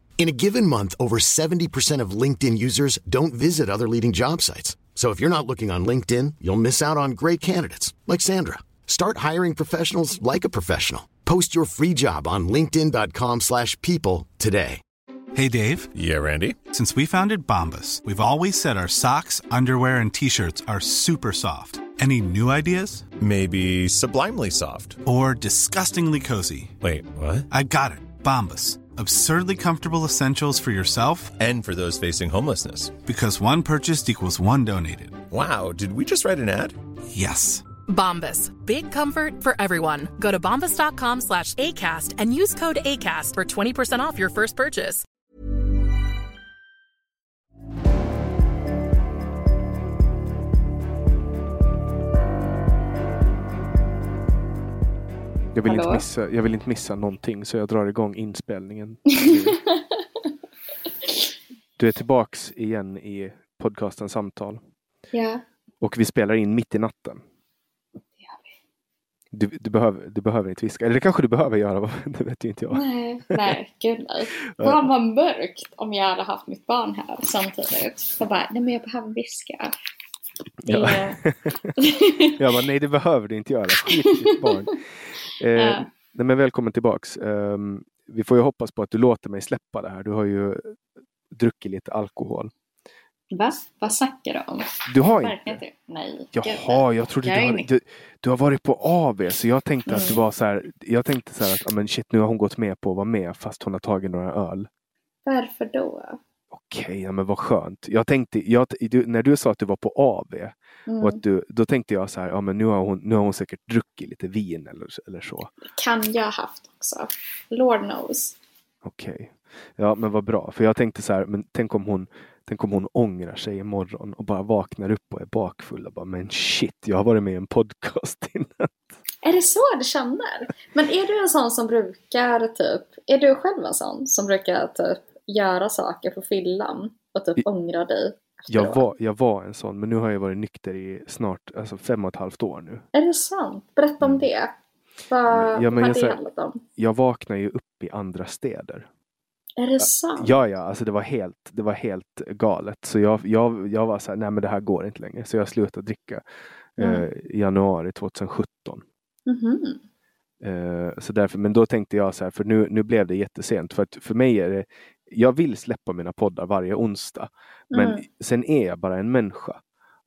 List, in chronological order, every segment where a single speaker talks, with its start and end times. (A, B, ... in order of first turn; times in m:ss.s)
0:00.2-0:14.8 A
0:15.4-0:15.9 B
0:16.0-0:16.6 C
0:16.7-0:23.0 B
0:23.2-0:25.0 C
0:25.0-0:26.8 B
0:26.8-0:27.5 C
0:27.5-0:31.4 B
0:31.4-0:33.0 C
0:33.0-0:35.2 B
0:35.3-0:36.8 C
0:37.1-0:37.6 B
0:37.9-0:45.0 D
0:55.5-0:59.6 E
0:55.7-0:56.0 F
0:59.2-0:59.8 F
1:01.8-1:04.6 E
1:05.1-1:05.4 F
1:05.8-1:07.2 E
1:08.2-1:08.5 F
1:09.3-1:13.5 E
1:12.7-1:19.7 F
1:14.5-1:14.9 E
1:20.6-1:21.7 E
1:20.7-1:21.2 F
1:21.8-1:22.4 F
1:22.4-1:24.8 E
1:25.4-1:30.8 E
1:25.6-1:25.9 F
1:31.3-1:32.5 E
1:33.3-1:37.7 F
1:34.9-1:35.6 E
1:36.4-1:44.7 E
1:39.9-1:40.2 F
1:45.3-1:46.2 F
1:46.5-1:55.5 E
1:50.9-1:51.2 F
1:55.7-1:58.4 F
1:58.8-2:08.7 E
2:09.2-2:18.8 F
2:18.5-2:22.9 E
2:22.9-2:24.5 F
2:25.1-2:26.6 F
2:25.3-2:26.2 E
2:26.8-2:28.9 E
2:29.6-2:30.4 F
2:29.8-2:36.2 E
2:36.8-2:38.8 E
2:36.8-2:37.1 F
2:39.3-2:39.8 F
2:40.4-2:49.6 E
2:47.7-2:48.0 F